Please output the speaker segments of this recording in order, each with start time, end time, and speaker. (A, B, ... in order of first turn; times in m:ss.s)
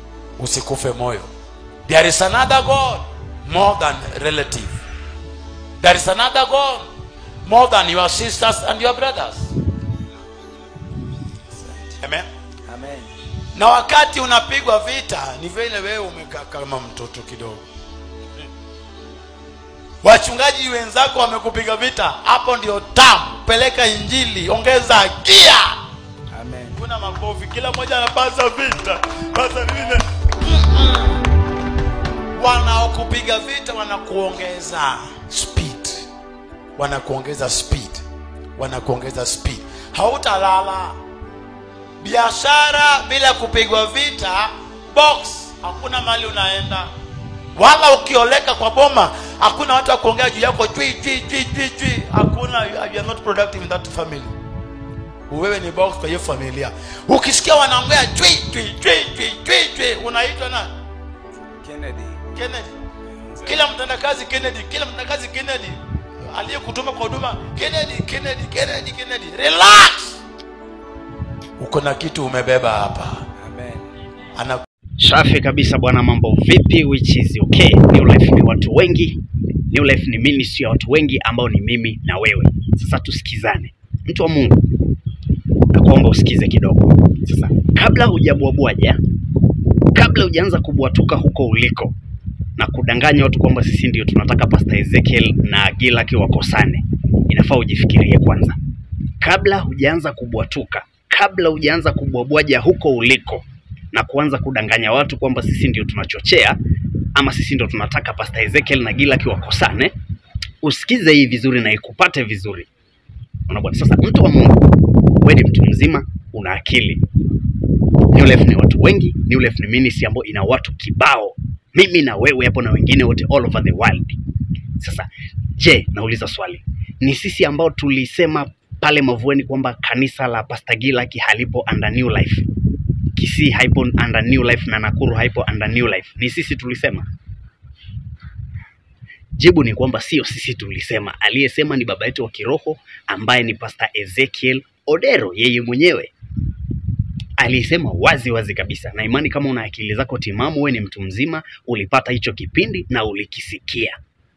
0:00.4-0:01.3 A
0:01.8-0:04.8 A
0:05.8-0:06.9 A
0:07.4-0:09.5 A
0:11.5-0:12.0 B
0:12.0-0:12.3 A
0:12.7-0:13.1 B
0:13.5-0:17.6 A
0:20.0-0:25.7 A
0:26.3-0:26.8 B
0:26.7-0:31.2 A
0:32.3-0:36.0 A
0:36.8-0:38.0 A
0:38.6-0:41.0 A
0:42.0-0:46.9 A
0:47.5-0:54.3 A
0:55.3-1:00.7 A
1:01.6-1:02.2 B
1:02.3-1:02.7 A
1:03.3-1:03.6 B
1:03.4-1:10.2 A
1:11.6-1:13.2 A
1:13.4-1:13.9 B
1:14.4-1:14.6 A
1:15.0-1:24.6 C
1:25.7-1:29.0 C
1:29.9-1:31.9 C
1:32.6-1:38.6 C
1:39.2-1:46.6 C
1:47.1-1:49.9 C
1:50.6-1:52.7 C
1:53.5-1:57.0 C
1:58.1-2:04.2 C
2:04.8-2:12.5 C
2:13.1-2:17.1 C
2:19.4-2:26.1 C
2:27.4-2:34.0 C